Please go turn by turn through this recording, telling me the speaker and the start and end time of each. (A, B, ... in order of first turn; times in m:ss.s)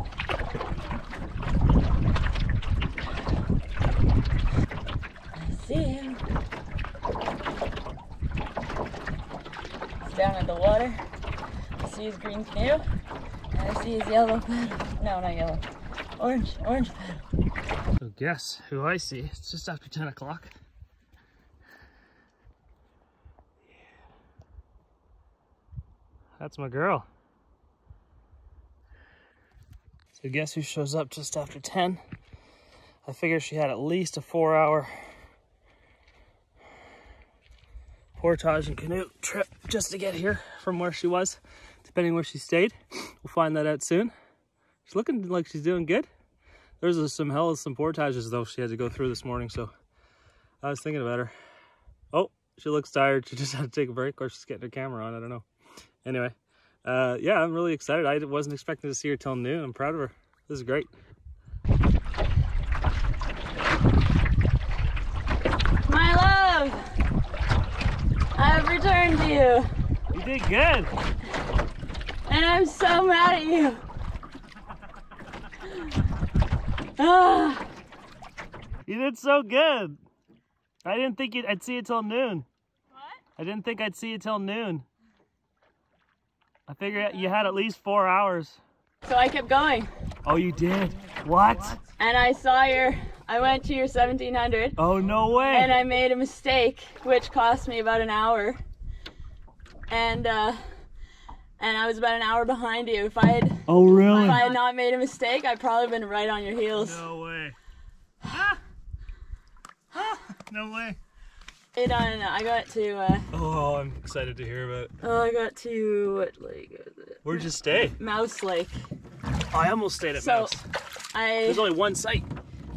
0:05.4-0:06.2 A
0:10.0-0:11.0 A
0:11.8-0:12.8 A
0:13.5-0:15.6 A
0:16.2-0:17.2 A
0:18.0-0:20.5 B
0:26.4-0:27.1 B
0:30.2-0:32.0 B
0:33.1-0:35.1 B
0:38.2-0:44.1 B
0:44.9-0:46.1 B
0:46.8-0:49.7 B
0:50.6-0:51.3 B
0:52.1-0:55.4 B
0:56.0-0:56.3 B
0:56.8-1:00.9 B
1:05.8-1:06.9 A
1:08.4-1:09.7 A
1:10.1-1:10.9 B
1:12.3-1:13.8 A
1:17.0-1:17.6 A
1:18.9-1:20.0 B
1:20.8-1:22.5 B
1:23.4-1:24.9 B
1:26.7-1:28.6 B
1:29.0-1:29.9 A
1:30.2-1:31.8 B
1:31.9-1:34.8 A
1:34.8-1:35.8 B
1:35.5-1:38.6 A
1:39.9-1:40.6 A
1:41.6-1:47.0 A
1:43.7-1:44.5 B
1:46.7-1:47.6 B
1:48.3-1:48.6 B
1:49.9-1:51.0 B
1:51.8-1:53.3 A
1:53.3-1:54.9 B
1:55.0-1:57.5 A
1:57.2-1:58.0 B
1:58.0-1:58.8 A
1:59.5-2:00.6 B
2:00.2-2:00.6 A
2:01.1-2:01.8 A
2:01.4-2:02.3 B